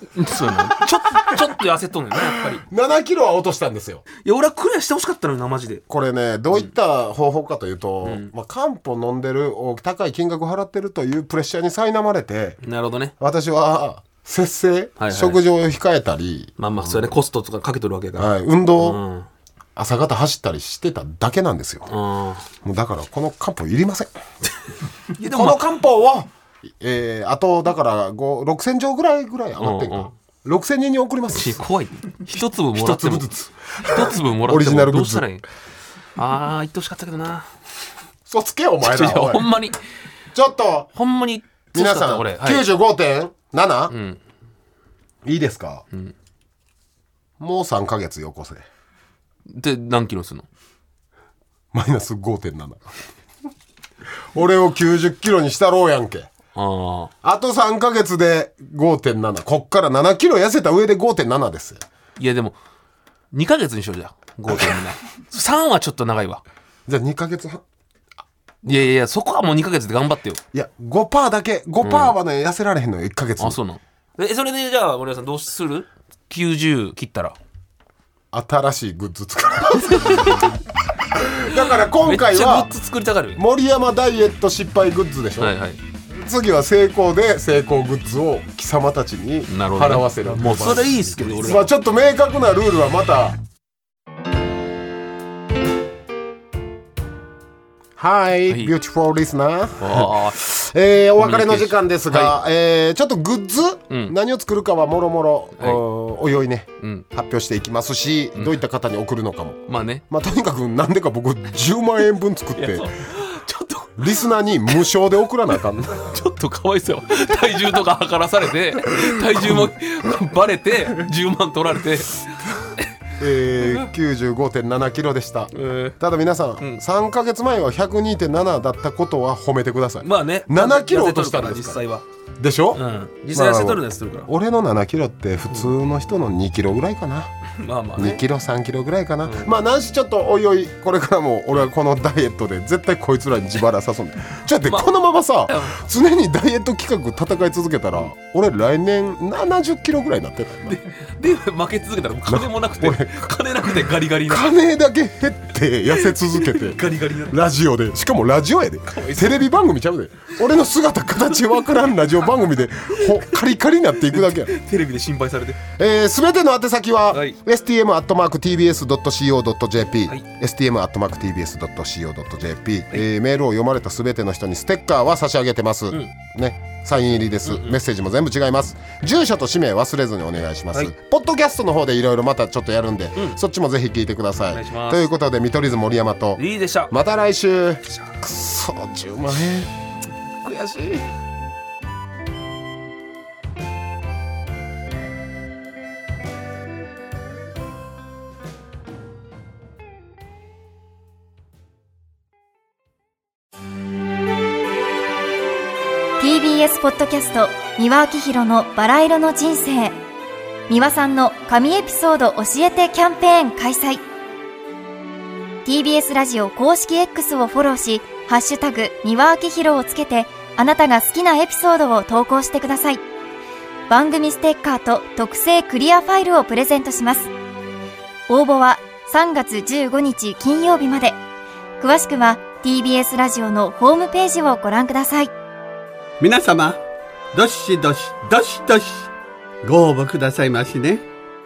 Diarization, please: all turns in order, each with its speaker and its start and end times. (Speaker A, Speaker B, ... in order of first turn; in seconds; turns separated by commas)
Speaker A: 0.1-2.6, Speaker B: 0.3-1.4, Speaker B: 2.2-4.0, Speaker A: 4.2-5.8, Speaker B: 5.9-12.6, Speaker A: 8.0-8.3, Speaker A: 12.6-13.1, Speaker B: 13.2-17.1, Speaker A: 15.0-15.4, Speaker A: 16.6-19.3, Speaker B: 18.2-19.0, Speaker B: 19.8-21.9, Speaker A: 21.9-22.5, Speaker B: 22.6-24.1, Speaker A: 25.1-25.6, Speaker B: 25.2-31.6, Speaker A: 29.6-30.1, Speaker A: 31.3-33.3, Speaker B: 32.7-35.3, Speaker A: 33.8-35.5, Speaker A: 36.2-37.5, Speaker B: 38.3-39.5, Speaker A: 38.8-39.8, Speaker B: 40.3-40.9, Speaker A: 41.0-42.6, Speaker B: 41.7-43.9, Speaker A: 43.9-44.2, Speaker B: 45.2-45.8, Speaker B: 47.4-48.6, Speaker A: 49.5-50.5, Speaker B: 51.7-52.8, Speaker B: 54.3-56.3, Speaker A: 56.6-57.1, Speaker B: 57.2-61.8, Speaker A: 62.2-62.6, Speaker A: 63.3-66.4, Speaker B: 66.9-67.6, Speaker A: 68.7-70.4, Speaker B: 70.5-73.6, Speaker A: 71.8-72.2, Speaker A: 73.4-77.4, Speaker B: 78.3-80.6, Speaker A: 80.0-80.5, Speaker B: 81.1-82.7, Speaker A: 81.9-83.4, Speaker B: 83.4-85.5, Speaker A: 85.4-85.8, Speaker B: 86.1-93.4, Speaker A: 89.5-91.7, Speaker B: 98.0-112.9, Speaker A: 99.8-100.4, Speaker A: 101.2-102.4, Speaker A: 103.9-104.2, Speaker A: 109.7-110.0, Speaker A: 112.6-114.3, Speaker B: 114.0-116.2, Speaker A: 116.0-123.0, Speaker B: 119.0-119.7, Speaker B: 123.2-131.8, Speaker A: 123.5-123.9, Speaker A: 125.5-126.0, Speaker A: 130.0-132.0, Speaker B: 132.4-137.3, Speaker A: 132.7-134.3, Speaker A: 137.6-138.2, Speaker B: 138.0-150.8, Speaker A: 139.2-139.6, Speaker A: 145.5-145.8, Speaker A: 150.7-154.5, Speaker B: 152.3-164.5, Speaker A: 156.0-157.4, Speaker A: 158.9-159.4, Speaker A: 163.0-163.3, Speaker A: 164.1-165.6, Speaker B: 165.8-189.7, Speaker A: 167.1-167.4, Speaker A: 177.5-177.8, Speaker A: 184.5-185.1, Speaker A: 186.4-186.9, Speaker B: 190.4-191.0, Speaker C: 206.2-210.0, Speaker C: 210.7-214.0, Speaker C: 215.7-223.0, Speaker C: 223.9-227.3, Speaker C: 228.3-231.2, Speaker C: 231.8-235.3, Speaker D: 236.2-236.8, Speaker D: 237.3-239.1, Speaker D: 239.6-241.0